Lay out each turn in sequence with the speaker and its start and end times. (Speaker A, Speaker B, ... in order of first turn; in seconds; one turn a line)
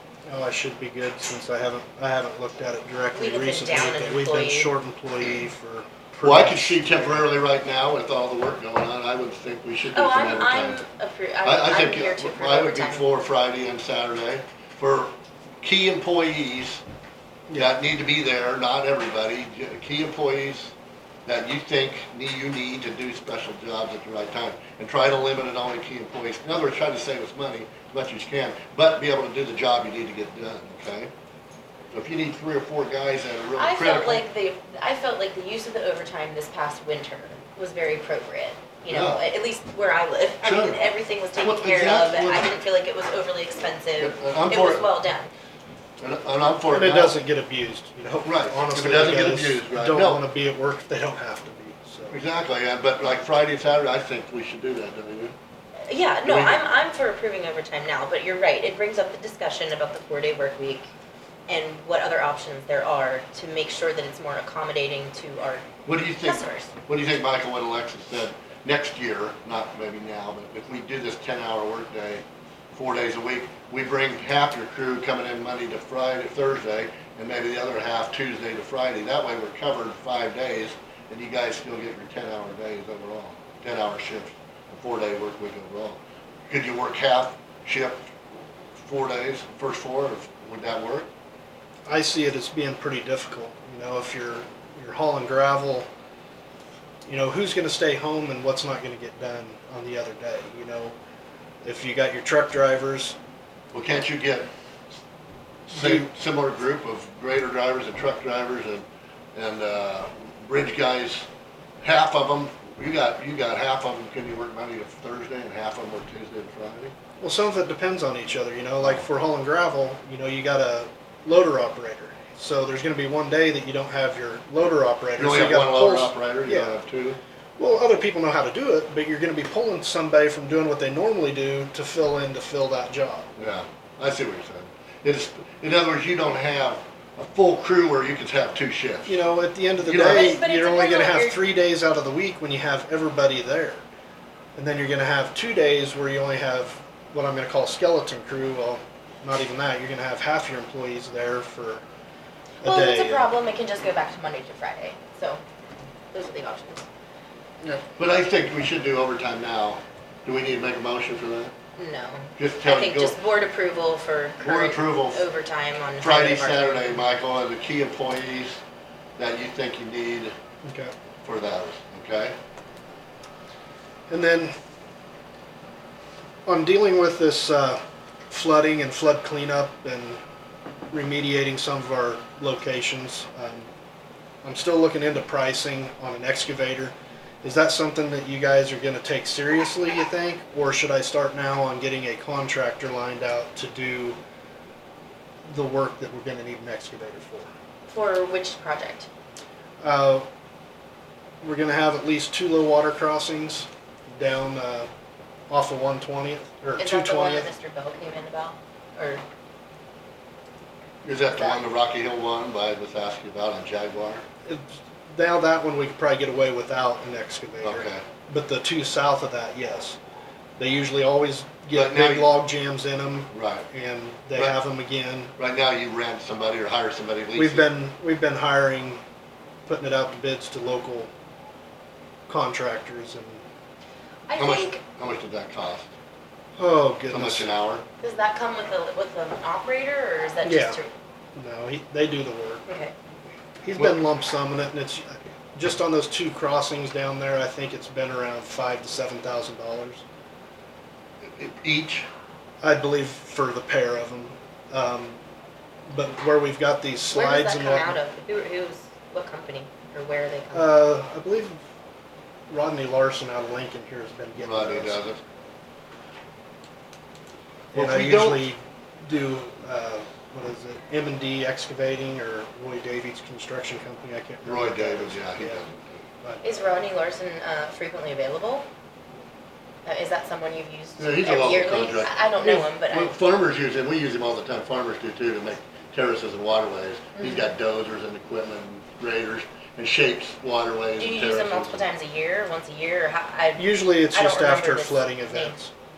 Speaker A: 0.2-7.3
Speaker B: 3.1-4.7
Speaker C: 6.2-10.8
Speaker B: 9.9-13.1
Speaker C: 11.4-16.8
Speaker C: 17.6-20.7
Speaker C: 21.3-31.1
Speaker C: 31.9-34.2
Speaker B: 33.5-45.3
Speaker C: 38.9-39.2
Speaker C: 40.4-40.8
Speaker C: 41.4-42.5
Speaker C: 44.0-44.9
Speaker C: 46.0-47.2
Speaker A: 46.7-52.2
Speaker C: 48.2-50.2
Speaker C: 52.1-55.3
Speaker B: 55.9-60.9
Speaker C: 56.2-56.6
Speaker B: 61.5-66.7
Speaker C: 65.9-88.0
Speaker C: 88.8-91.1
Speaker A: 91.9-95.9
Speaker A: 97.0-101.0
Speaker A: 101.6-103.2
Speaker C: 103.7-104.5
Speaker A: 105.7-106.1
Speaker C: 105.7-111.3
Speaker C: 111.8-116.9
Speaker A: 117.2-126.7
Speaker C: 125.2-127.2
Speaker A: 127.6-133.3
Speaker C: 133.4-139.2
Speaker A: 139.1-143.8
Speaker C: 139.8-140.4
Speaker B: 140.0-141.4
Speaker A: 144.6-151.8
Speaker B: 152.6-155.4
Speaker A: 152.6-153.3
Speaker B: 156.1-156.8
Speaker C: 158.0-161.5
Speaker B: 161.8-166.9
Speaker C: 162.4-163.2
Speaker C: 164.4-165.2
Speaker C: 166.0-168.6
Speaker C: 169.2-170.3
Speaker A: 170.7-170.9
Speaker C: 171.2-172.4
Speaker A: 174.1-174.5
Speaker A: 176.5-180.2
Speaker A: 180.9-183.7
Speaker A: 184.4-194.2
Speaker A: 195.4-197.5
Speaker B: 197.9-199.1
Speaker A: 199.8-200.3
Speaker A: 201.4-204.9
Speaker A: 205.5-207.5
Speaker B: 206.8-209.2
Speaker C: 211.0-214.2
Speaker B: 211.3-211.6
Speaker A: 214.5-220.0
Speaker C: 217.6-218.0
Speaker A: 220.6-225.3
Speaker C: 221.7-222.3
Speaker C: 223.3-223.7
Speaker C: 225.4-227.7
Speaker A: 227.3-229.0
Speaker A: 229.7-231.1
Speaker A: 232.3-233.4
Speaker B: 234.3-234.8
Speaker C: 234.4-235.9
Speaker A: 236.6-237.5
Speaker C: 237.1-237.8
Speaker B: 238.0-240.9
Speaker A: 240.4-240.8
Speaker A: 241.4-242.6
Speaker B: 242.7-242.9
Speaker A: 243.6-250.0
Speaker C: 251.3-252.1
Speaker A: 252.6-255.2
Speaker A: 255.9-257.9
Speaker B: 257.1-260.7
Speaker A: 260.5-261.6
Speaker A: 262.5-265.0
Speaker C: 264.4-265.2
Speaker A: 267.7-275.6
Speaker C: 267.7-268.5
Speaker C: 274.4-275.9
Speaker A: 276.2-276.6
Speaker B: 276.4-278.6
Speaker B: 279.9-283.2
Speaker C: 281.0-291.8
Speaker B: 287.1-287.5
Speaker B: 291.0-295.6
Speaker A: 293.6-295.7